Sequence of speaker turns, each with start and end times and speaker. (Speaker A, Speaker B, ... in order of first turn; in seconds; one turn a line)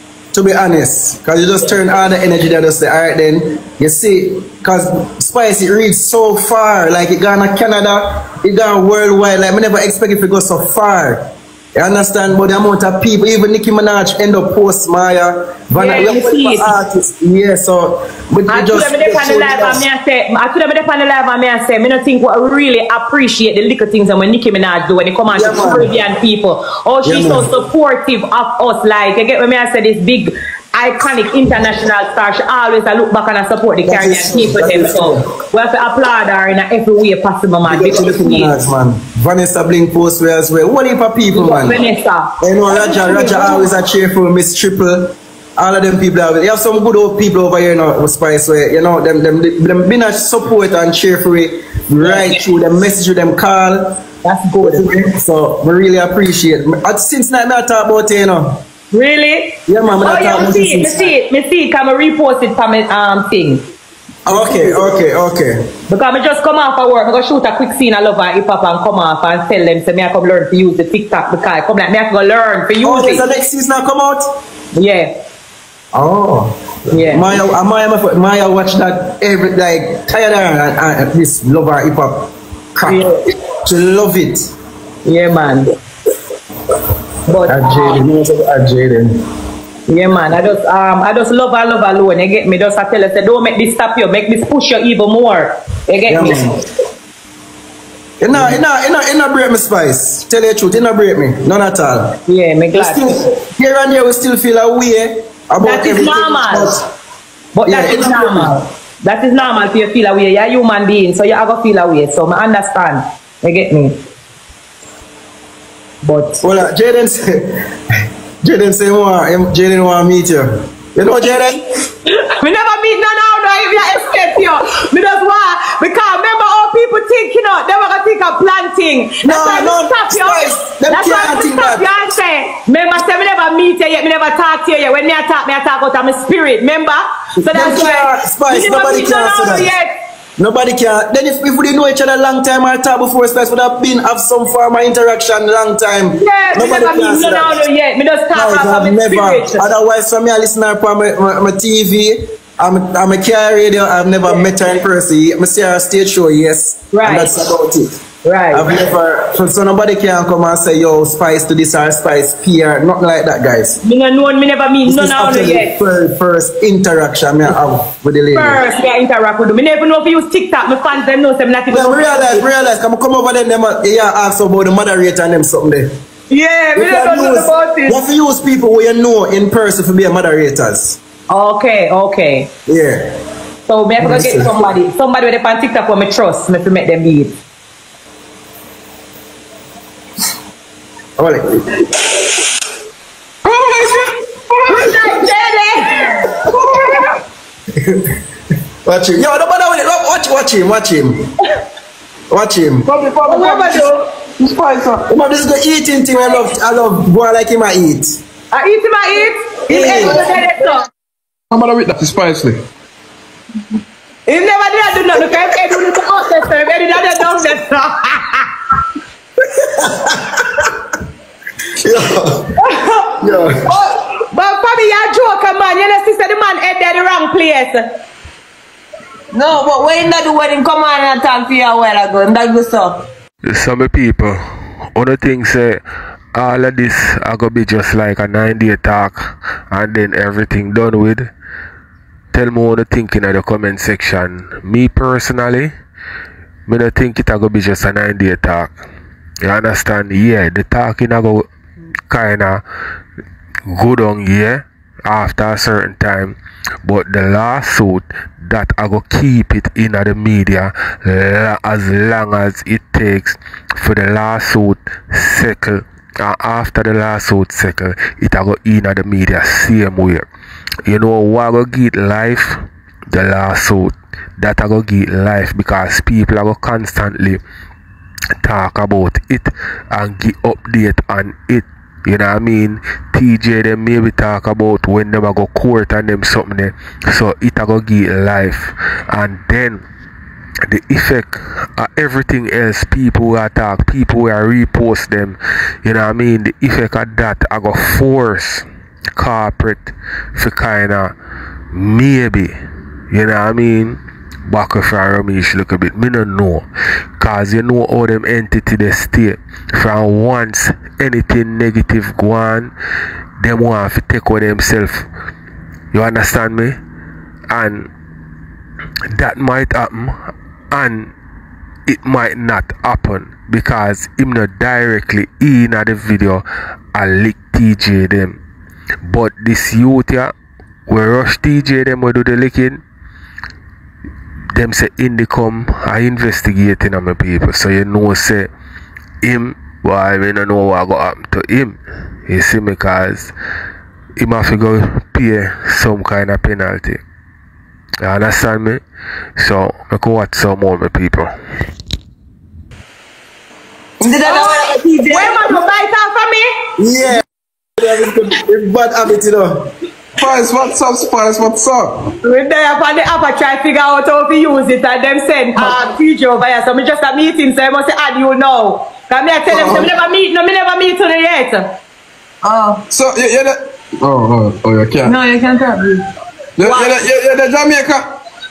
Speaker A: 0.3-19.9
Speaker B: 15.7-16.8
Speaker B: 18.5-38.5
Speaker A: 25.3-25.9
Speaker A: 27.1-27.5
Speaker A: 33.9-35.2
Speaker A: 37.7-41.8
Speaker B: 41.3-43.7
Speaker A: 42.4-54.0
Speaker B: 52.0-52.4
Speaker B: 54.2-54.9
Speaker A: 54.6-58.6
Speaker B: 58.9-63.6
Speaker A: 59.7-61.1
Speaker A: 64.3-65.7
Speaker B: 64.3-64.9
Speaker B: 65.9-73.2
Speaker A: 72.8-74.3
Speaker B: 74.7-75.2
Speaker A: 75.9-83.0
Speaker B: 76.9-77.4
Speaker B: 82.8-83.2
Speaker A: 83.6-84.5
Speaker B: 85.0-85.7
Speaker B: 87.3-88.0
Speaker A: 87.5-89.2
Speaker B: 89.9-96.5
Speaker A: 96.1-96.6
Speaker A: 98.2-102.2
Speaker B: 102.3-103.2
Speaker A: 102.7-106.9
Speaker B: 105.6-106.8
Speaker B: 107.5-114.0
Speaker A: 107.7-108.5
Speaker B: 116.0-116.4
Speaker A: 116.4-117.7
Speaker A: 118.4-121.6
Speaker B: 122.3-139.9
Speaker A: 129.2-131.9
Speaker A: 137.4-139.7
Speaker A: 140.4-147.6
Speaker B: 146.2-149.7
Speaker A: 148.3-163.8
Speaker B: 156.9-157.3
Speaker B: 158.2-158.8
Speaker B: 163.8-165.8
Speaker A: 164.8-168.6
Speaker B: 168.3-172.4
Speaker A: 171.7-175.9
Speaker B: 176.3-177.9
Speaker A: 176.8-181.0
Speaker B: 181.3-182.5
Speaker A: 182.7-183.1
Speaker B: 183.7-187.3
Speaker A: 184.0-184.5
Speaker A: 191.2-191.5
Speaker C: 193.4-194.1
Speaker B: 194.7-196.3
Speaker A: 197.8-198.2
Speaker A: 198.8-201.3
Speaker A: 202.3-202.9
Speaker C: 202.9-205.1
Speaker B: 203.3-204.0
Speaker D: 203.3-203.6
Speaker A: 205.1-208.2
Speaker B: 208.5-210.9
Speaker A: 209.7-210.3
Speaker C: 209.7-210.2
Speaker C: 211.5-212.6
Speaker B: 214.3-218.5
Speaker A: 219.8-220.3
Speaker A: 221.8-222.6
Speaker B: 222.6-227.9
Speaker A: 223.2-223.7
Speaker D: 229.3-233.1
Speaker E: 233.5-234.4
Speaker E: 234.9-235.8
Speaker E: 236.3-241.3
Speaker E: 242.3-245.7
Speaker E: 246.7-248.8
Speaker E: 249.4-251.5
Speaker E: 252.1-252.6
Speaker E: 253.7-270.3
Speaker E: 270.9-277.4
Speaker E: 278.4-289.8
Speaker E: 290.7-298.6
Speaker E: 299.2-301.1
Speaker E: 301.7-302.6
Speaker E: 303.1-306.7
Speaker E: 307.2-312.7
Speaker E: 313.4-315.1
Speaker E: 315.9-316.8
Speaker E: 317.5-317.9
Speaker E: 319.1-321.1
Speaker E: 321.9-328.4
Speaker E: 329.0-330.3
Speaker E: 330.9-332.8
Speaker E: 334.5-338.5
Speaker E: 339.2-343.3
Speaker E: 344.2-347.0
Speaker E: 348.0-348.8
Speaker E: 349.4-351.3
Speaker D: 354.0-355.6
Speaker B: 354.3-356.5
Speaker A: 356.8-357.2
Speaker A: 357.8-359.7
Speaker C: 360.2-362.1
Speaker B: 362.2-371.8
Speaker A: 369.5-369.9
Speaker D: 372.4-372.8
Speaker C: 372.9-375.2
Speaker D: 375.0-376.0
Speaker C: 376.6-378.1